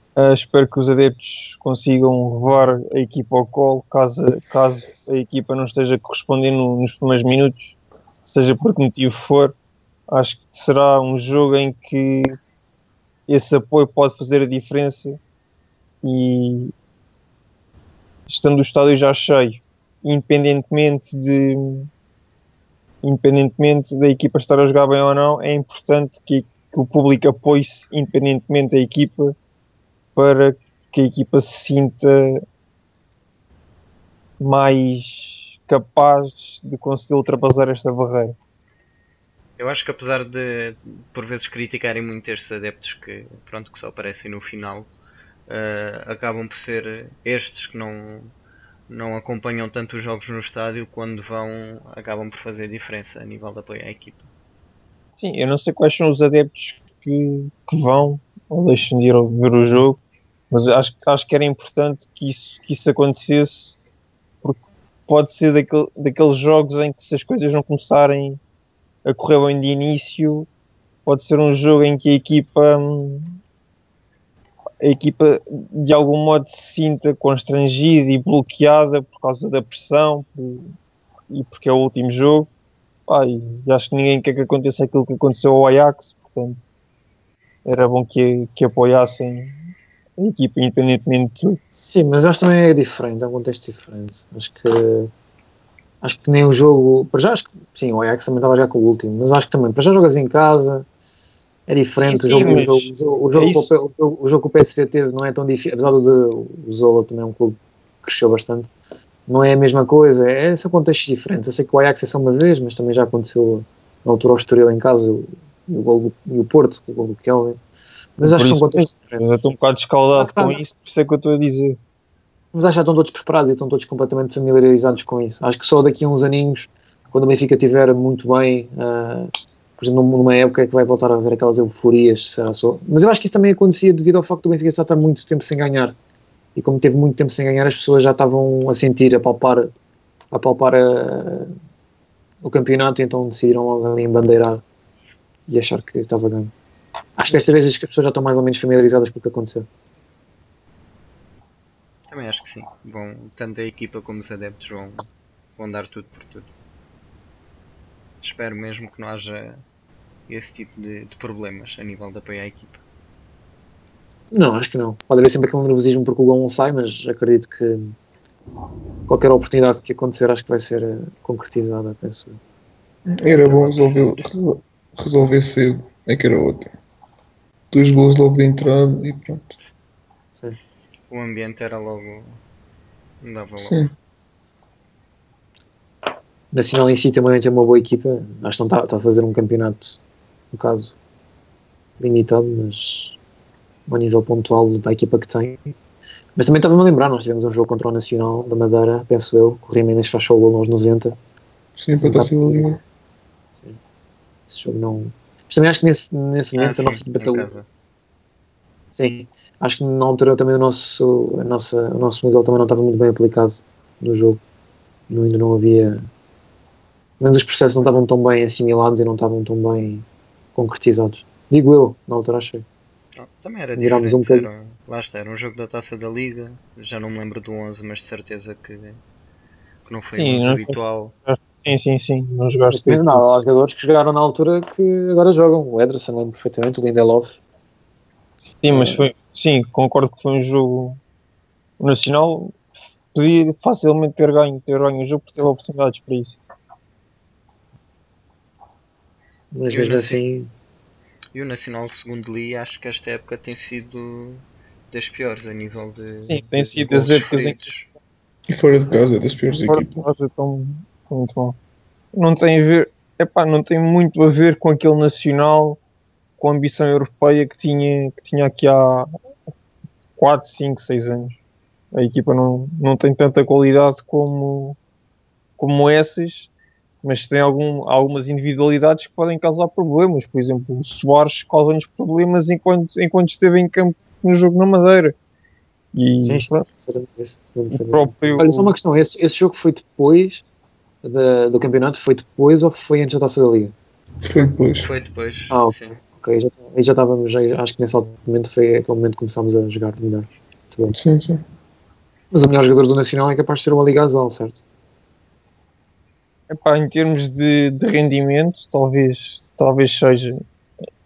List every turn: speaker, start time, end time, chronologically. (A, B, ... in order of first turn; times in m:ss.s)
0:00.2-0:07.8 A
0:08.3-0:09.6 A
0:10.1-0:12.4 A
0:13.3-0:15.2 A
0:16.0-0:16.7 A
0:18.3-0:21.9 A
0:23.0-0:29.4 A
0:30.2-0:32.4 A
0:34.4-0:38.4 A
0:39.6-0:44.9 B
0:45.5-0:48.3 B
0:48.9-0:54.3 B
0:55.2-1:00.0 A
0:59.6-0:59.8 C
1:00.5-1:03.8 A
1:04.4-1:08.4 A
1:09.0-1:10.5 A
1:11.1-1:13.4 A
1:14.8-1:20.7 A
1:21.3-1:22.5 A
1:23.1-1:26.6 A
1:27.7-1:31.6 A
1:31.8-1:35.1 C
1:36.0-1:40.9 C
1:41.7-1:48.7 C
1:42.0-1:43.7 A
1:49.3-1:57.6 C
1:58.2-1:59.3 C
1:58.2-2:01.8 A
2:00.1-2:00.6 C
2:02.5-2:16.0 C
2:16.6-2:19.7 C
2:20.3-2:21.5 C
2:22.4-2:24.6 C
2:25.5-2:26.5 C
2:27.2-2:29.7 C
2:32.1-2:36.5 B
2:38.2-2:39.6 B
2:40.3-2:42.8 B
2:44.3-2:48.0 C
2:49.1-2:52.4 C
2:53.1-2:56.7 D
2:53.3-2:54.3 B
2:57.7-2:59.6 D
3:01.1-3:02.4 B
3:03.2-3:03.9 B
3:03.6-3:03.9 D
3:06.5-3:10.0 C
3:10.5-3:11.0 C
3:12.0-3:13.2 C
3:13.9-3:15.8 C
3:16.4-3:21.2 C
3:21.8-3:22.8 D
3:22.0-3:22.7 C
3:24.5-3:27.5 C
3:26.6-3:27.7 B
3:29.0-3:34.4 C
3:35.1-3:36.1 C
3:37.2-3:42.7 C
3:43.2-3:49.0 B
3:43.8-3:44.5 C
3:49.8-3:51.2 B
3:50.1-3:53.2 A
3:52.7-3:57.4 C
3:58.5-4:01.0 A
3:58.7-3:59.0 C
4:01.8-4:02.6 A
4:03.1-4:06.4 A
4:09.5-4:10.5 C
4:09.7-4:10.2 B
4:11.3-4:17.9 B
4:16.3-4:17.6 A
4:18.5-4:20.1 D
4:19.7-4:21.6 A
4:22.1-4:25.8 A
4:26.4-4:29.1 A
4:30.2-4:31.4 A
4:31.9-4:34.8 A
4:35.6-4:36.5 A
4:37.0-4:45.2 A
4:45.9-4:46.5 A
4:46.2-4:50.4 C
4:47.7-4:48.7 A
4:51.0-4:53.7 C
4:54.2-4:54.9 D
4:54.8-4:56.0 B
4:55.5-5:01.0 C
5:00.9-5:01.4 D
5:02.3-5:04.6 C
5:06.5-5:10.4 A